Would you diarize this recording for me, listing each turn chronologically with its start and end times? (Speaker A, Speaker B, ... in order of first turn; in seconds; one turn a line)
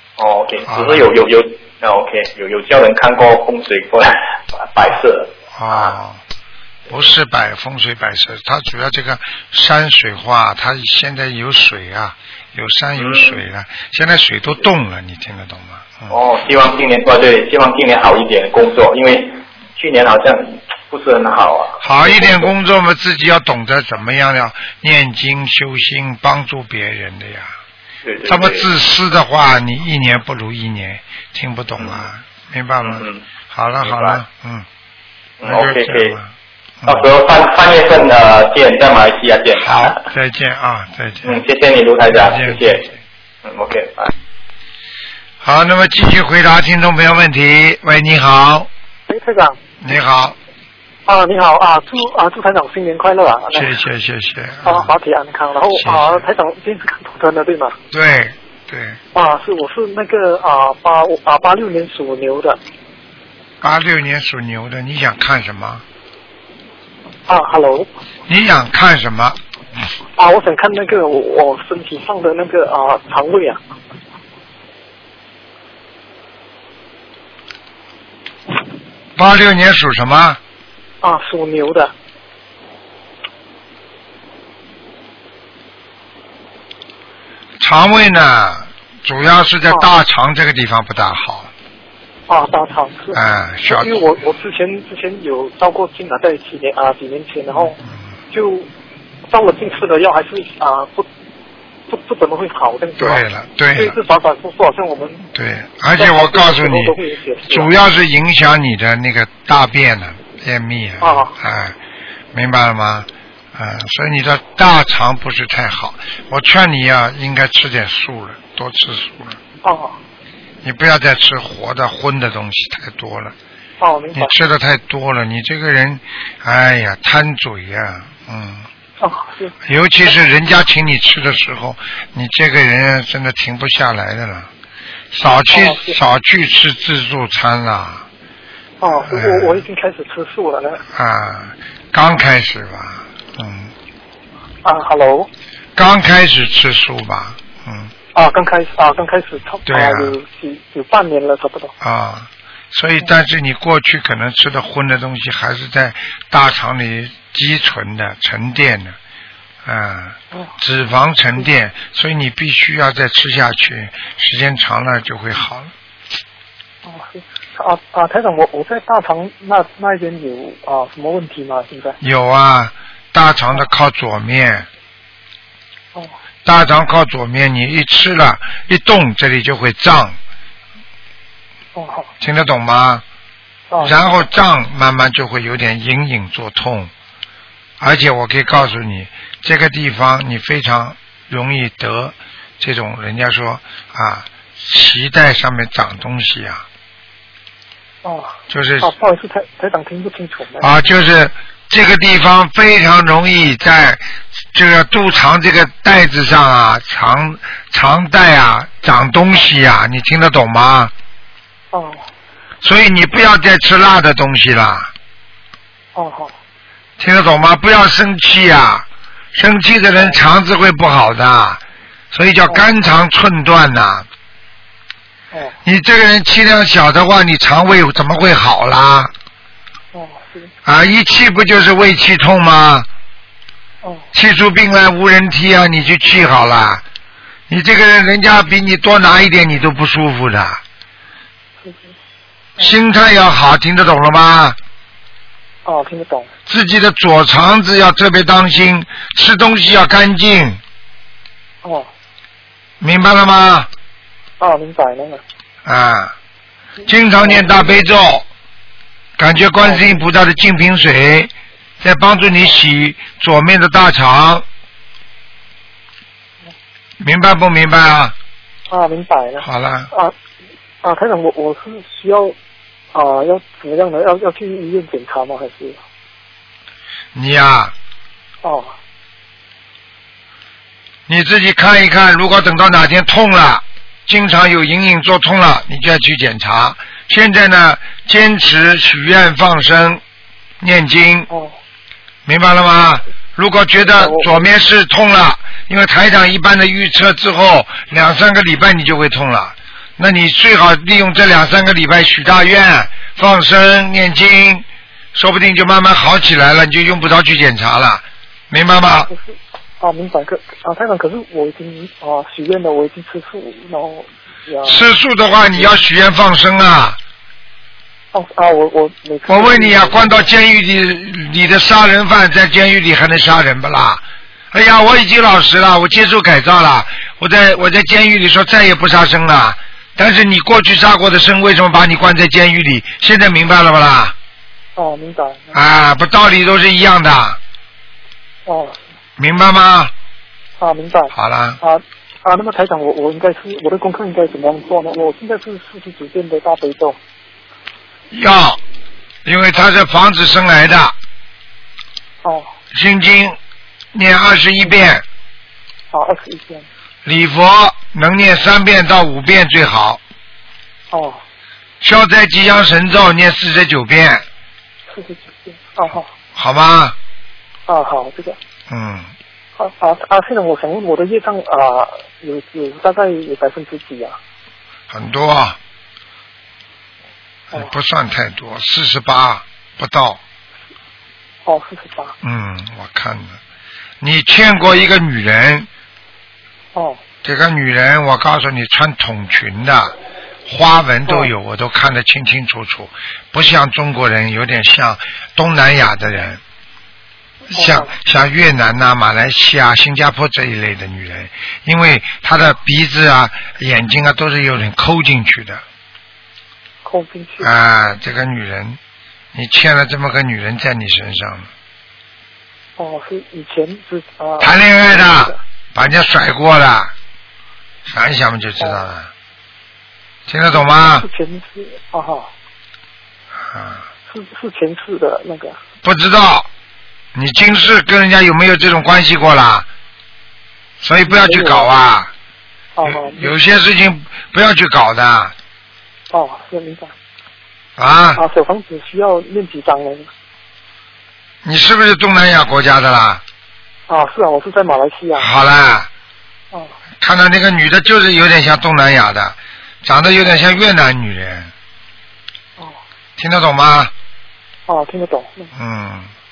Speaker A: 0.2-6.0
Speaker B: 0.7-1.1
Speaker B: 5.6-6.2
Speaker B: 6.9-16.2
Speaker A: 13.0-13.4
Speaker A: 16.1-22.5
Speaker B: 21.8-27.5
Speaker A: 28.0-28.7
Speaker B: 28.2-34.7
Speaker A: 31.8-32.1
Speaker A: 32.8-33.2
Speaker A: 33.8-34.2
Speaker A: 35.4-36.2
Speaker B: 35.4-36.3
Speaker B: 36.8-37.1
Speaker A: 36.9-40.0
Speaker B: 39.6-41.4
Speaker A: 41.2-42.9
Speaker B: 42.1-42.9
Speaker A: 43.4-44.1
Speaker B: 45.4-48.7
Speaker C: 49.1-49.6
Speaker B: 49.8-50.4
Speaker C: 51.1-53.8
Speaker B: 53.5-54.9
Speaker C: 54.6-57.8
Speaker B: 55.8-56.3
Speaker B: 57.9-59.0
Speaker C: 59.1-62.6
Speaker B: 63.6-65.8
Speaker C: 67.3-67.9
Speaker B: 68.3-69.4
Speaker C: 70.2-73.6
Speaker B: 79.2-80.4
Speaker C: 81.0-81.9
Speaker B: 87.6-91.5
Speaker C: 92.3-97.8
Speaker B: 93.1-94.0
Speaker C: 98.3-98.7
Speaker C: 99.3-101.1
Speaker C: 101.9-105.3
Speaker B: 103.0-104.0
Speaker B: 105.3-107.0
Speaker C: 106.0-107.7
Speaker B: 107.5-111.8
Speaker C: 111.0-111.3
Speaker B: 112.3-119.4
Speaker C: 119.6-120.0
Speaker B: 120.6-123.3
Speaker C: 123.8-124.3
Speaker B: 124.1-128.7
Speaker C: 129.0-129.5
Speaker B: 129.6-134.5
Speaker B: 135.1-138.1
Speaker C: 135.5-136.0
Speaker C: 138.8-140.8
Speaker B: 139.1-139.6
Speaker B: 140.9-143.7
Speaker C: 144.6-145.3
Speaker B: 145.8-147.9
Speaker C: 148.1-151.7
Speaker B: 149.7-150.2
Speaker B: 151.8-159.0
Speaker B: 159.7-165.7
Speaker C: 166.8-172.0
Speaker B: 172.0-174.7
Speaker B: 176.4-180.2
Speaker C: 181.8-182.1
Speaker B: 182.2-183.0
Speaker C: 183.7-184.0
Speaker B: 183.8-186.9
Speaker B: 187.8-196.7
Speaker C: 198.0-200.7
Speaker B: 198.5-198.9
Speaker B: 200.6-210.9
Speaker C: 211.7-212.1
Speaker B: 212.6-214.9
Speaker C: 215.9-216.3
Speaker B: 217.0-224.1
Speaker B: 225.7-229.1
Speaker C: 229.9-230.5
Speaker B: 230.7-232.9
Speaker B: 234.1-236.8
Speaker B: 237.5-240.6
Speaker C: 241.6-241.9
Speaker B: 242.6-244.6
Speaker C: 245.7-246.3
Speaker B: 246.5-250.6
Speaker C: 251.6-251.9
Speaker B: 252.8-253.7
Speaker C: 254.4-255.2
Speaker B: 255.7-256.1
Speaker B: 256.9-258.3
Speaker C: 257.2-257.6
Speaker B: 259.2-264.4
Speaker C: 259.6-260.0
Speaker B: 267.0-268.1
Speaker C: 268.7-270.1
Speaker B: 269.4-269.9
Speaker C: 270.8-272.4
Speaker C: 272.9-275.8
Speaker B: 277.1-277.7
Speaker C: 278.4-278.8
Speaker B: 281.1-290.0
Speaker B: 290.6-291.3
Speaker C: 291.3-291.6
Speaker B: 292.3-309.1
Speaker C: 293.9-294.4
Speaker C: 309.1-314.9
Speaker B: 314.6-317.0
Speaker C: 318.1-320.3
Speaker B: 319.3-334.1
Speaker C: 334.8-335.6
Speaker B: 335.5-337.4
Speaker C: 338.5-338.8
Speaker B: 339.2-339.9
Speaker C: 340.6-347.0
Speaker B: 341.1-341.6
Speaker B: 348.1-348.6
Speaker B: 349.2-350.9
Speaker C: 352.2-352.5
Speaker B: 352.7-353.4
Speaker B: 353.9-355.0
Speaker C: 355.9-356.7
Speaker B: 357.1-360.0
Speaker C: 360.9-361.2
Speaker B: 361.8-364.2
Speaker C: 364.9-366.1
Speaker B: 366.4-367.0
Speaker C: 367.7-368.4
Speaker B: 368.7-369.1
Speaker C: 369.6-374.2
Speaker B: 374.9-375.6
Speaker B: 377.5-380.2
Speaker C: 381.4-382.1
Speaker B: 382.2-383.4
Speaker B: 384.0-385.7
Speaker C: 386.8-387.0
Speaker B: 387.2-389.9
Speaker B: 390.5-396.4
Speaker B: 397.5-405.6
Speaker C: 397.6-397.9
Speaker C: 406.8-407.5
Speaker B: 407.4-408.8
Speaker B: 409.3-411.5
Speaker C: 412.8-415.4
Speaker B: 414.4-416.9
Speaker B: 417.9-419.1
Speaker B: 420.3-421.1
Speaker C: 420.5-422.3
Speaker B: 423.5-423.9
Speaker C: 424.1-425.6
Speaker B: 425.8-426.5
Speaker B: 427.1-429.7
Speaker B: 430.8-432.1
Speaker C: 431.1-431.7
Speaker C: 432.8-433.4
Speaker B: 432.9-435.3
Speaker C: 436.1-436.9
Speaker B: 437.8-438.2
Speaker C: 438.2-440.1
Speaker B: 441.4-443.2
Speaker C: 443.9-445.3
Speaker B: 445.2-445.9
Speaker B: 447.0-451.5
Speaker B: 453.2-453.9
Speaker C: 454.7-455.5
Speaker B: 455.6-456.1